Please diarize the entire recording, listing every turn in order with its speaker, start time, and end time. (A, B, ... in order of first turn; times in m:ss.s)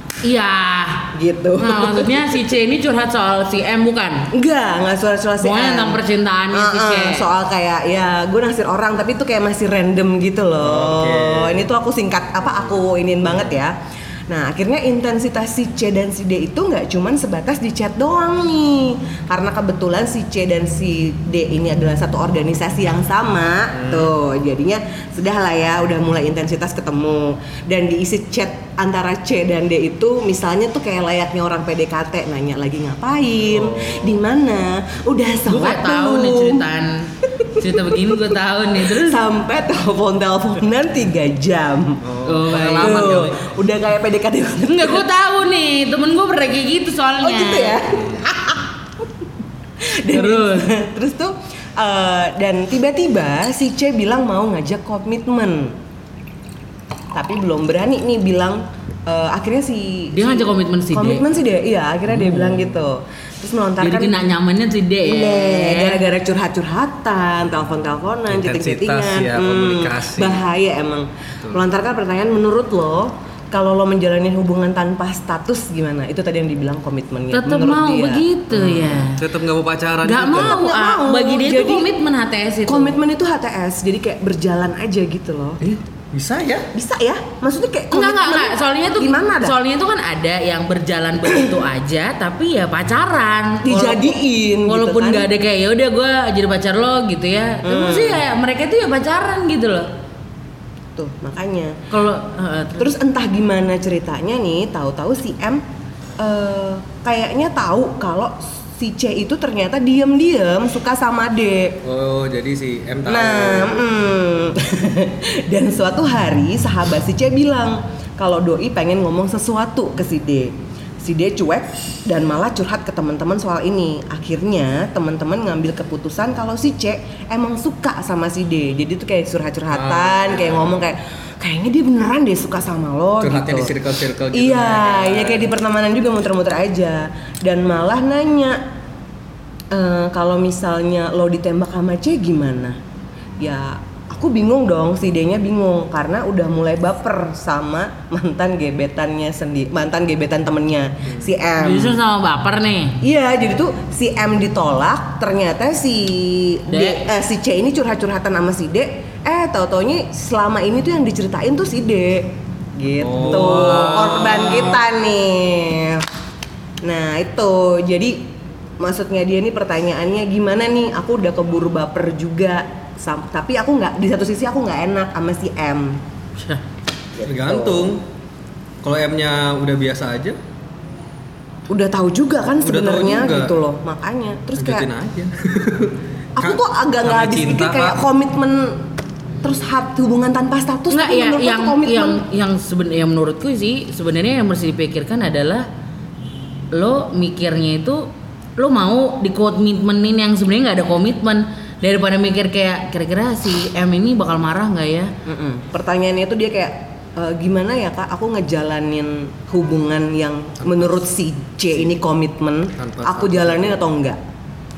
0:00.2-0:04.3 A
0:01.1-0:02.3 B
0:04.3-0:13.8 B
0:05.4-0:07.3 A
0:10.6-0:11.7 C
0:14.3-0:36.6 B
0:23.8-0:24.1 C
0:33.5-0:34.2 C
0:35.4-0:39.2 A
0:37.2-0:45.1 B
0:42.0-0:43.4 C
0:42.2-0:43.3 A
0:44.6-0:47.8 A
0:47.2-0:49.2 B
0:49.8-0:55.8 B
0:50.1-0:50.7 A
0:57.1-1:04.2 B
1:00.1-1:01.2 A
1:02.1-1:02.7 C
1:03.8-1:06.0 A
1:05.0-1:18.2 B
1:08.3-1:10.4 C
1:17.3-1:19.2 A
1:18.5-1:20.6 C
1:20.0-1:23.0 A
1:20.3-1:21.9 B
1:22.6-1:25.6 B
1:25.6-1:26.7 C
1:26.7-1:29.6 B
1:27.9-1:39.9 A
1:33.6-1:35.3 B
1:37.6-1:38.2 B
1:40.9-1:41.8 B
1:41.9-1:42.9 A
1:42.8-1:45.6 B
1:46.2-1:51.8 B
1:51.8-1:53.8 C
1:53.0-2:13.7 B
2:09.7-2:10.8 C
2:13.2-2:15.5 C
2:14.3-2:18.6 B
2:19.7-2:22.8 B
2:23.4-2:32.0 B
2:31.6-2:33.0 A
2:33.0-2:46.0 B
2:36.7-2:37.0 A
2:43.0-2:44.8 C
2:46.8-2:56.0 B
2:56.4-2:56.6 A
2:57.1-2:57.9 B
2:57.2-2:58.0 C
2:58.8-3:00.4 C
3:01.7-3:04.9 B
3:02.6-3:03.5 C
3:04.6-3:08.0 C
3:06.4-3:08.9 B
3:09.4-3:12.2 B
3:10.9-3:15.7 A
3:16.7-3:25.1 A
3:25.2-3:34.2 B
3:30.6-3:30.9 C
3:32.8-3:33.8 C